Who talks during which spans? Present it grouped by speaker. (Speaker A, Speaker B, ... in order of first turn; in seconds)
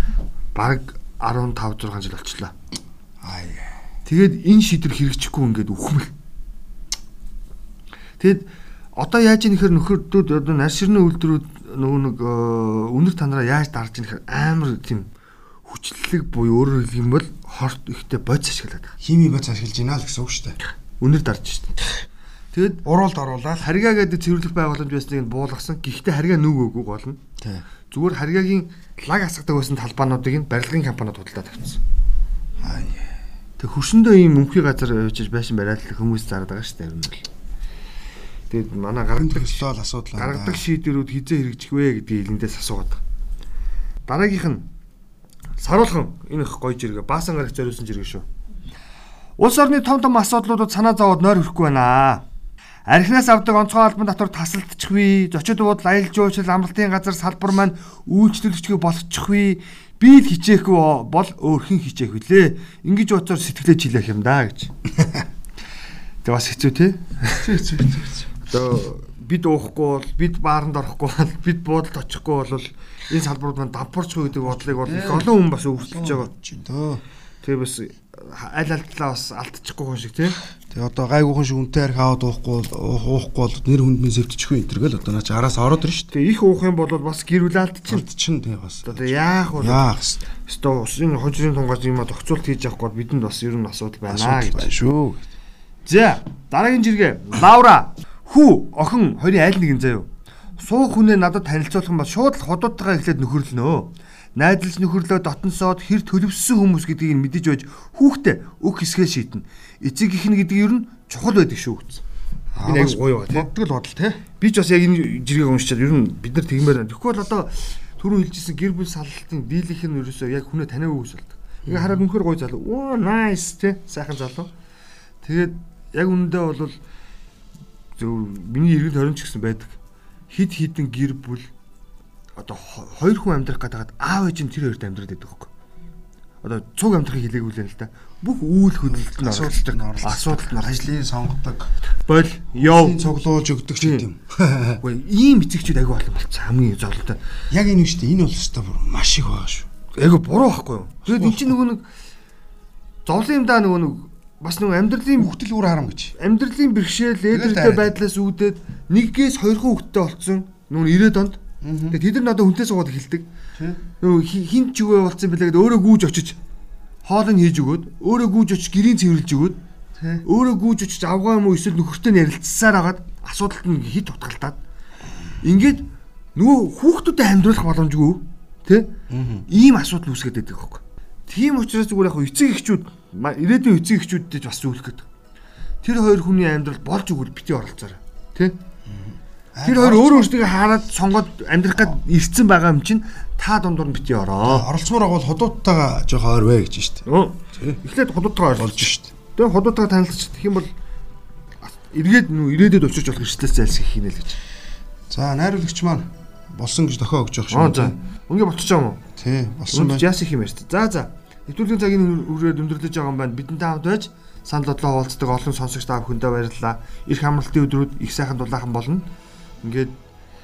Speaker A: 0.6-2.5, 4.0-6.1, 8.2-15.1, 15.7-18.9, 21.0-21.8, 22.5-22.9, 23.6-27.2, 27.9-31.8, 33.6-37.2, 38.5-43.0, 44.1-44.7, 45.6-48.2, 49.4-52.2, 52.9-64.7, 66.2-67.5, 68.5-76.3, 77.4-80.4, 86.1-88.1, 88.8-94.7, 95.9-112.0, 112.6-113.5, 114.4-124.5, 125.2-126.8, 128.0-129.8, 130.3-131.5, 132.4-135.5, 136.4-140.7, 142.1-143.2, 143.8-144.1, 144.8-147.2, 149.9-151.9, 153.1-155.3, 156.2-163.3, 164.0-166.4, 167.1-169.6, 170.2-174.6, 175.4-178.9, 179.5-185.1, 185.8-188.6, 189.6-194.7, 197.1-200.7, 201.7-204.4, 207.5-209.0, 209.7-219.1, 219.6-219.9
Speaker B: 3.2-3.8, 19.0-20.6, 22.8-23.7, 27.4-27.6, 32.6-33.1, 39.1-40.6, 67.4-68.3, 74.4-77.0, 80.7-86.1, 87.9-90.2, 94.1-95.2, 112.6-114.2, 121.7-122.0, 138.9-141.7, 142.5-144.8, 147.5-149.7, 151.1-151.5, 155.2-156.2, 157.3-157.9, 161.6-162.0, 170.0-170.2, 179.1-179.5, 188.9-190.4, 194.4-197.8, 198.6-199.1, 205.1-208.0, 209.2-210.1